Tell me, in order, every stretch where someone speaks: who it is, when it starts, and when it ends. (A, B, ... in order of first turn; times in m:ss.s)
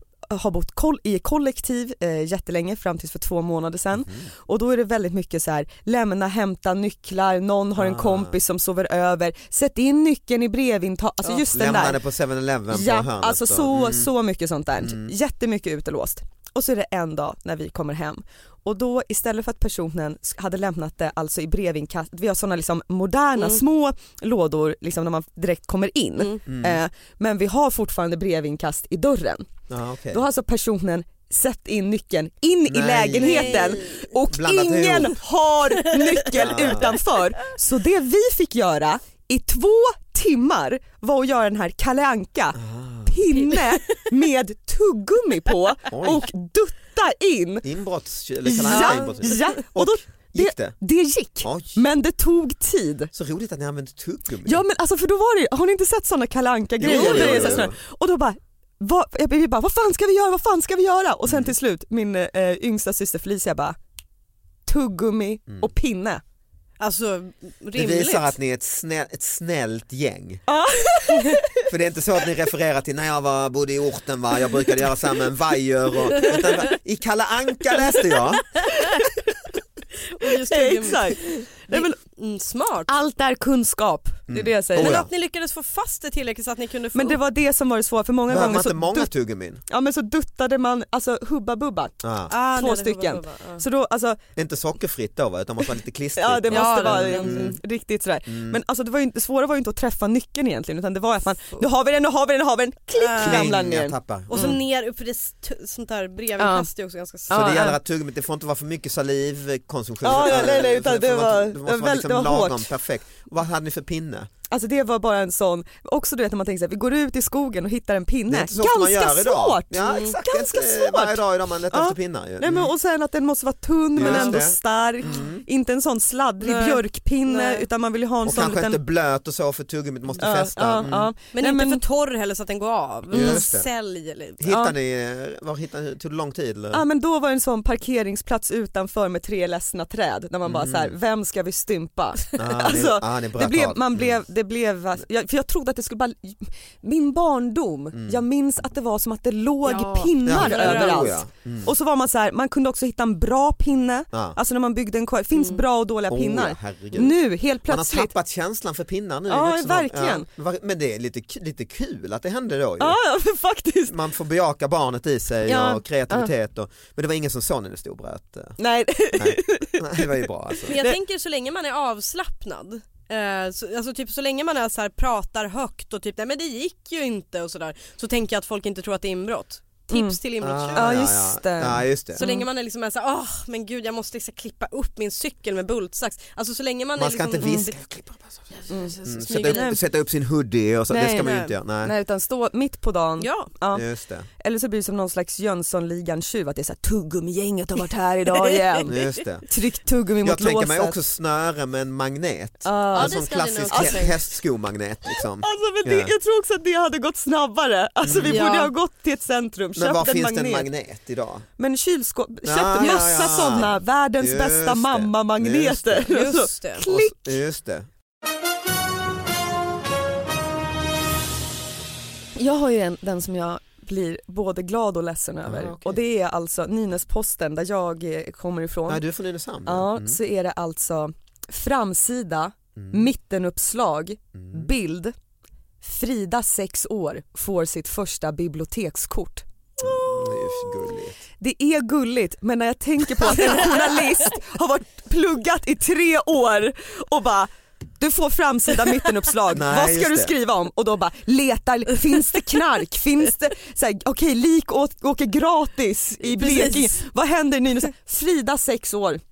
0:00.3-0:12.0 A
0:07.8-0:08.4 B
0:11.3-0:14.1 B
0:12.7-0:29.5 A
0:14.8-0:15.1 B
0:26.5-0:26.8 B
0:29.7-0:30.2 B
0:30.1-0:47.6 A
0:32.7-0:35.2 B
0:33.2-0:33.8 C
0:35.9-0:36.9 C
0:36.3-0:37.0 B
0:42.6-0:43.2 B
0:43.4-0:44.0 C
0:45.9-0:46.3 B
0:47.6-0:50.8 B
0:48.4-0:53.1 A
0:48.7-0:49.5 C
0:51.4-0:51.8 B
0:53.1-0:54.6 B
0:54.5-1:03.8 A
0:56.8-0:57.8 B
0:56.8-0:57.7 C
1:01.3-1:01.5 B
1:04.7-1:06.2 A
1:06.8-1:08.4 C
1:07.8-1:10.4 B
1:10.5-1:11.6 A
1:11.7-1:18.6 B
1:18.7-1:19.2 A
1:20.1-1:22.9 C
1:20.2-1:22.0 A
1:22.9-1:25.0 A
1:24.3-1:25.1 B
1:24.8-1:27.2 C
1:26.9-1:29.1 A
1:28.3-1:29.6 B
1:29.7-1:31.9 A
1:32.0-1:32.3 B
1:32.3-1:33.6 C
1:32.5-1:34.2 A
1:34.4-1:37.6 B
1:36.2-1:44.6 A
1:36.5-1:37.5 C
1:38.3-1:38.6 B
1:43.0-1:43.5 C
1:43.2-1:44.6 B
1:44.3-1:47.6 C
1:46.4-1:46.7 A
1:47.3-1:47.8 A
1:47.3-1:54.3 B
1:50.0-1:52.7 A
1:54.5-2:08.8 A
1:58.3-2:02.7 B
2:04.0-2:05.4 B
2:04.0-2:04.4 C
2:06.4-2:07.7 C
2:08.2-2:11.1 B
2:10.2-2:11.8 A
2:11.3-2:14.5 C
2:13.1-2:13.7 B
2:13.1-2:13.4 A
2:14.4-2:16.8 B
2:14.5-2:14.7 A
2:16.7-2:38.1 A
2:20.4-2:20.9 B
2:22.4-2:24.2 B
2:27.9-2:28.2 B
2:29.6-2:31.2 C
2:30.2-2:31.7 B
2:34.1-2:34.4 B
2:35.4-2:35.6 C
2:36.1-2:43.0 B
2:39.3-2:40.3 A
2:42.8-2:44.0 A
2:43.9-2:48.6 B
2:45.5-2:46.3 A
2:48.6-2:51.0 A
2:49.1-2:50.8 B
2:50.7-3:00.9 C
2:59.9-3:00.2 A
3:00.4-3:02.2 B
3:00.8-3:02.5 A
3:02.2-3:07.8 C
3:07.0-3:11.9 B
3:07.4-3:07.7 A
3:08.5-3:09.8 C
3:08.7-3:09.8 A
3:10.9-3:13.8 A
3:11.2-3:11.5 C
3:13.2-3:13.5 C
3:13.7-3:14.3 B
3:14.4-3:21.0 A
3:18.3-3:19.2 C
3:18.9-3:19.5 B
3:20.2-3:26.1 B
3:22.6-3:24.0 A
3:22.9-3:24.3 C
3:25.4-3:30.7 A
3:28.0-3:28.4 B
3:28.2-3:28.7 C
3:29.8-3:31.5 B
3:31.6-3:37.3 A
3:32.4-3:36.2 B
3:36.1-3:36.9 C
3:36.9-3:37.9 B
3:42.4-3:49.0 A
3:45.4-3:46.0 B
3:48.9-3:50.2 B
3:49.6-3:55.2 A
3:52.8-3:53.1 B
3:54.4-3:54.7 B
3:55.8-4:00.3 A
3:59.8-4:01.2 B
4:01.4-4:19.2 A
4:09.5-4:10.3 B
4:16.2-4:17.0 C